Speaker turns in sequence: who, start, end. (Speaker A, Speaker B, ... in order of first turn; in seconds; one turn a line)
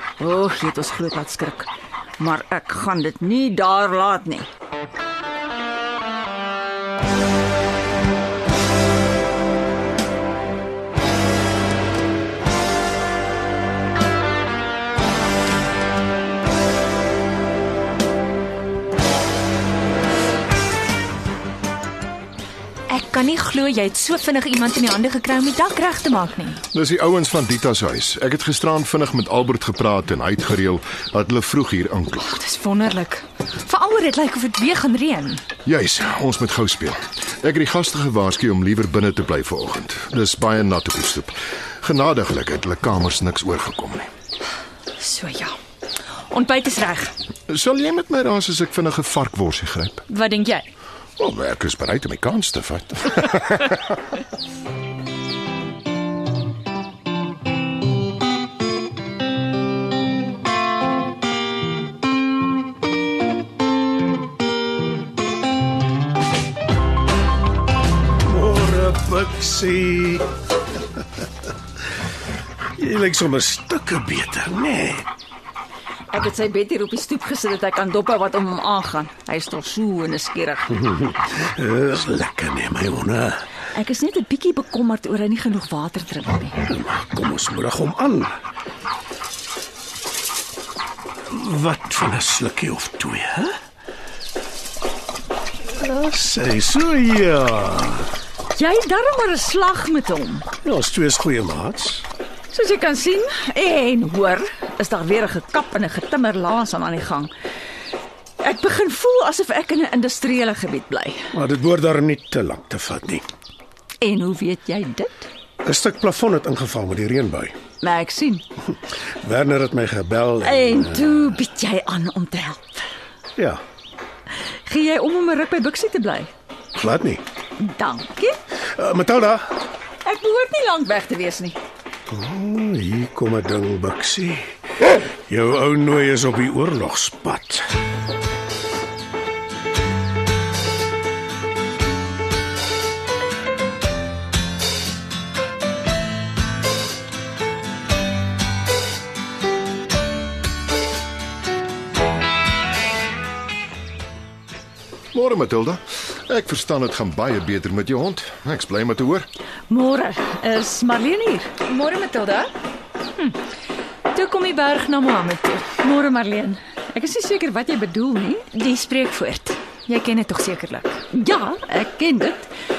Speaker A: 0.2-4.5
Speaker B: 22.9-26.6
Speaker C: 26.7-32.3
Speaker B: 32.2-35.4
Speaker C: 35.6-44.1
Speaker B: 45.0-45.5
Speaker B: 46.3-47.1
Speaker C: 47.5-50.0
Speaker B: 50.1-50.7
Speaker C: 51.2-54.0
Speaker D: 68.3-70.3
Speaker D: 72.8-75.1
Speaker A: 76.1-80.8
Speaker D: 80.7-83.4
Speaker A: 83.7-86.6
Speaker D: 86.7-88.3
Speaker D: 91.3-93.5
Speaker D: 95.7-98.1
Speaker A: 98.5-100.5
Speaker D: 100.6-102.1
Speaker A: 102.5-107.3
Speaker A: 108.4-111.3
Speaker D: 111.3-113.2
Speaker A: 114.0-115.3
Speaker D: 115.6-117.5
Speaker A: 117.8-118.4
Speaker D: 119.2-121.3
Speaker A: 120.4-122.8
Speaker A: 124.7-126.3
Speaker D: 126.8-127.2
Speaker A: 127.6-128.4
Speaker D: 128.8-129.4
Speaker A: 130.0-131.6
Speaker D: 132.1-134.5
Speaker D: 135.3-137.6
Speaker C: 155.1-159.3
Speaker A: 159.7-161.5
Speaker B: 161.6-162.5
Speaker B: 164.1-165.7
Speaker A: 165.8-168.5
Speaker B: 168.5-171.0
Speaker A: 171.1-172.5